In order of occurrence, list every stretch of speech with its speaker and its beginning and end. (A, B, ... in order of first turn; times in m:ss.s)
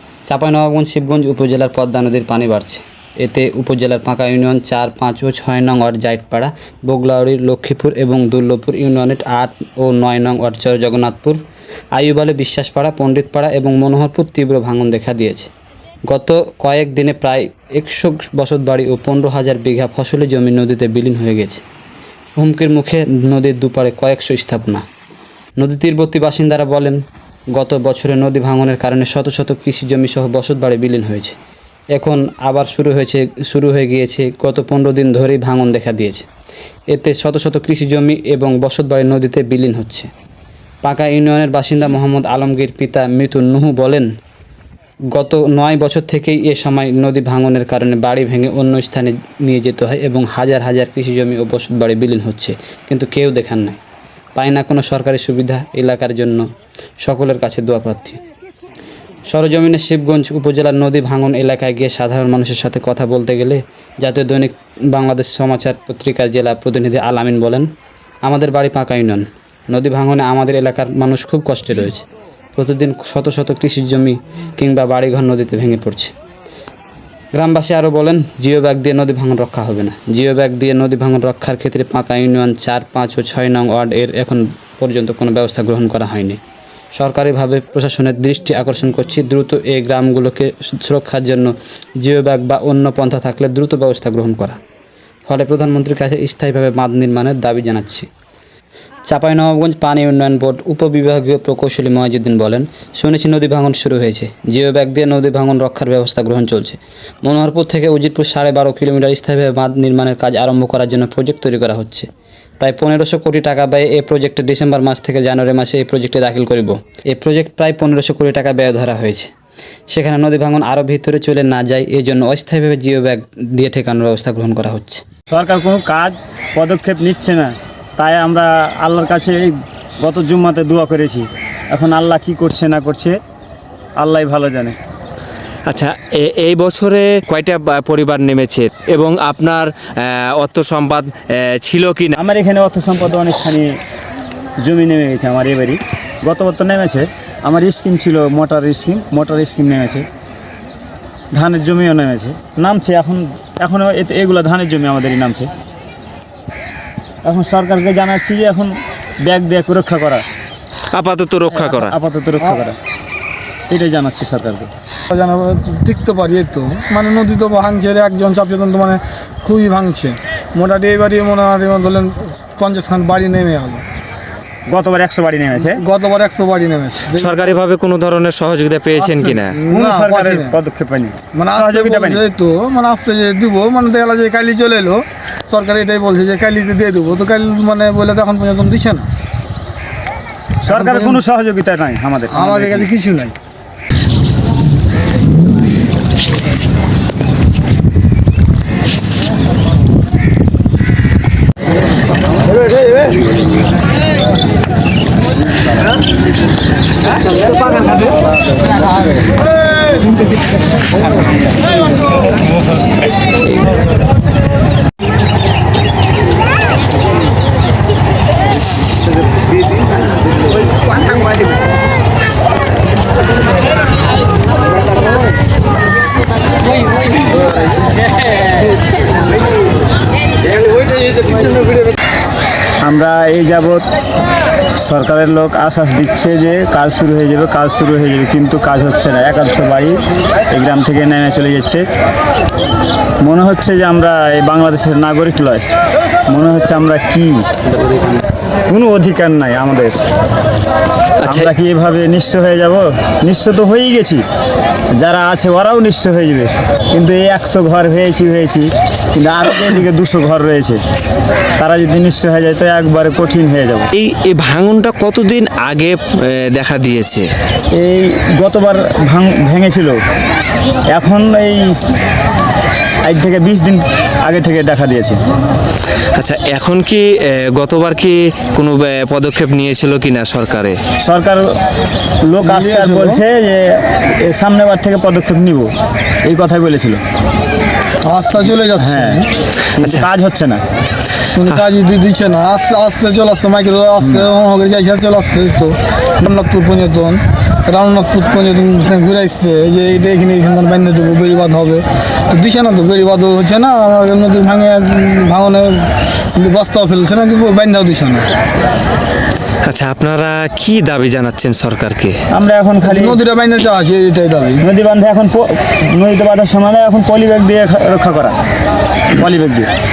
0:00.3-0:11.4 A
0:11.9-0:15.5 A
0:16.1-0:21.6 A
0:22.4-0:24.8 A
0:25.6-0:27.0 A
0:27.5-0:31.4 A
0:32.0-0:36.3 A
0:36.9-0:40.1 A
0:40.8-0:44.1 A
0:45.1-0:53.8 A
0:54.4-0:56.5 A
0:57.0-0:58.2 A
0:59.3-1:07.7 A
1:08.2-1:12.0 A
1:12.6-1:16.1 A
1:17.3-1:26.4 A
1:27.0-1:34.6 A
1:35.3-1:38.1 A
1:39.1-1:52.1 A
1:52.6-1:59.3 A
1:59.9-2:05.0 A
2:05.3-2:13.2 B
2:14.0-2:14.8 B
2:15.7-2:22.2 C
2:22.2-2:23.8 B
2:24.6-2:30.1 B
2:31.4-2:35.5 B
2:37.2-2:40.2 B
2:40.9-2:41.9 C
2:41.5-2:42.8 B
2:43.7-2:44.7 B
2:45.1-2:53.8 D
2:54.7-2:55.8 B
2:55.6-2:57.6 D
2:57.1-2:59.6 C
2:59.0-3:00.6 D
2:59.7-3:02.2 B
3:01.4-3:09.1 D
3:10.6-3:12.9 B
3:10.7-3:11.2 D
3:12.3-3:13.4 D
3:52.8-3:53.8 B
3:54.8-4:00.0 B
4:00.5-4:01.9 B
4:03.2-4:05.6 B
4:06.3-4:07.4 B
4:08.7-4:10.0 B
4:11.2-4:11.5 C
4:11.3-4:14.2 B
4:15.0-4:20.8 B
4:21.6-4:23.9 B
4:23.9-4:27.3 C
4:27.7-4:30.0 B
4:30.9-4:31.8 B
4:33.0-4:35.2 B
4:36.2-4:40.8 C
4:41.0-4:41.6 B
4:42.2-4:45.7 B
4:42.4-4:43.2 D
4:46.2-4:47.0 B
4:48.0-4:49.3 D
4:48.8-4:49.2 B
4:49.8-4:50.0 C
4:49.8-4:50.6 B
4:51.3-5:08.3 D
4:54.0-4:54.3 B
5:09.6-5:12.2 C
5:12.3-5:13.2 B
5:12.8-5:14.6 D
5:14.6-5:18.4 B
5:19.1-5:19.7 B